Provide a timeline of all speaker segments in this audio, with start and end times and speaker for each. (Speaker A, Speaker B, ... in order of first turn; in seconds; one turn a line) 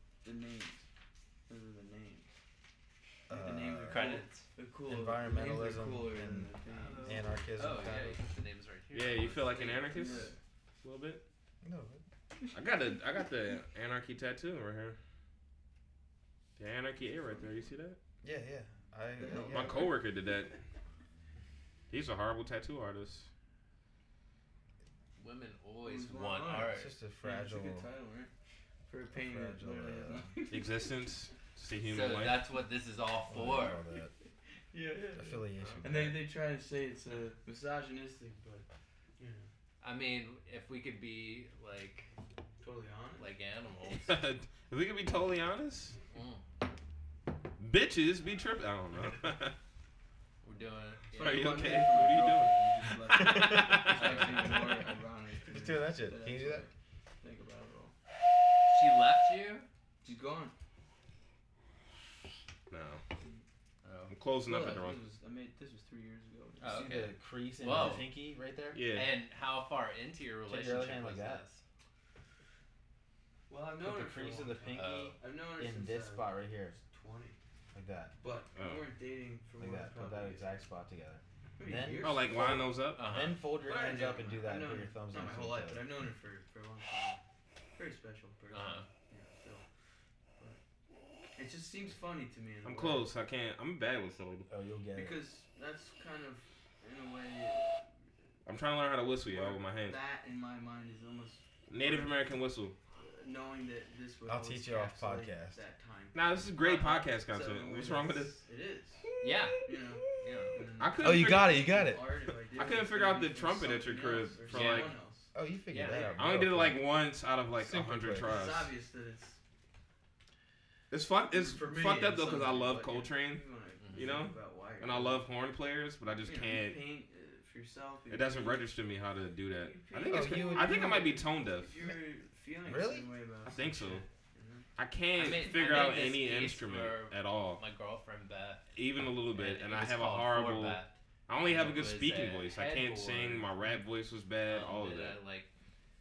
Speaker A: 0.2-0.9
Speaker A: 1.5-2.3
Speaker B: 3.3-4.1
Speaker A: 3.3-7.5
Speaker C: 3.9-4.5
Speaker B: 4.9-8.2
Speaker C: 6.7-10.3
Speaker D: 8.9-11.2
Speaker A: 9.8-10.4
Speaker B: 11.6-12.0
Speaker D: 12.5-15.0
Speaker D: 16.6-18.0
Speaker B: 18.2-19.9
Speaker A: 19.2-20.0
Speaker D: 19.5-20.6
Speaker D: 21.9-23.3
Speaker C: 25.2-26.9
Speaker A: 25.8-28.3
Speaker B: 26.6-27.9
Speaker A: 28.9-30.6
Speaker B: 29.1-30.4
Speaker D: 30.5-32.4
Speaker C: 31.9-33.8
Speaker B: 33.3-34.1
Speaker A: 34.7-38.6
Speaker B: 35.1-36.2
Speaker D: 35.6-36.1
Speaker A: 39.2-39.5
Speaker C: 39.8-42.1
Speaker A: 42.6-43.3
Speaker C: 43.2-44.1
Speaker D: 43.8-46.0
Speaker C: 46.1-46.4
Speaker D: 47.6-49.5
Speaker C: 50.4-51.8
Speaker A: 51.1-57.9
Speaker D: 51.2-52.6
Speaker B: 53.1-54.5
Speaker C: 53.1-54.8
Speaker D: 53.4-54.2
Speaker B: 55.5-56.6
Speaker C: 58.7-59.7
Speaker A: 60.0-60.5
Speaker D: 62.7-63.0
Speaker C: 63.8-64.1
Speaker D: 64.1-65.0
Speaker A: 64.4-66.9
Speaker C: 66.6-68.1
Speaker B: 66.6-68.8
Speaker A: 67.7-68.0
Speaker D: 68.7-69.1
Speaker C: 68.9-71.6
Speaker B: 70.5-71.4
Speaker A: 73.5-77.4
Speaker B: 73.8-76.8
Speaker C: 74.7-75.2
Speaker B: 77.7-78.1
Speaker A: 78.2-80.6
Speaker D: 78.5-78.8
Speaker B: 79.6-82.5
Speaker A: 81.6-82.8
Speaker D: 82.0-83.0
Speaker C: 82.9-83.4
Speaker B: 83.0-85.9
Speaker A: 83.6-87.2
Speaker A: 87.7-89.7
Speaker C: 88.5-88.9
Speaker A: 91.3-93.1
Speaker D: 92.6-94.5
Speaker B: 94.5-95.2
Speaker A: 94.9-97.8
Speaker D: 98.5-100.0
Speaker A: 99.2-102.1
Speaker D: 101.7-102.7
Speaker A: 103.0-109.0
Speaker B: 104.3-105.6
Speaker D: 106.1-108.4
Speaker D: 109.0-111.6
Speaker C: 109.2-109.6
Speaker A: 109.6-115.3
Speaker C: 110.2-110.6
Speaker B: 111.0-112.0
Speaker D: 112.5-114.9
Speaker C: 114.5-114.9
Speaker B: 115.3-116.8
Speaker C: 115.7-116.2
Speaker A: 115.8-116.4
Speaker D: 116.2-118.7
Speaker B: 117.7-118.3
Speaker A: 118.2-119.4
Speaker D: 120.9-126.8
Speaker A: 121.3-125.2
Speaker C: 123.8-124.1
Speaker A: 126.2-128.7
Speaker D: 128.1-131.8
Speaker A: 129.6-134.7
Speaker B: 130.0-131.2
Speaker B: 132.6-133.7
Speaker D: 133.5-134.0
Speaker D: 134.8-137.6
Speaker C: 135.1-138.7
Speaker D: 138.7-145.2
Speaker C: 139.3-143.7
Speaker C: 144.4-145.5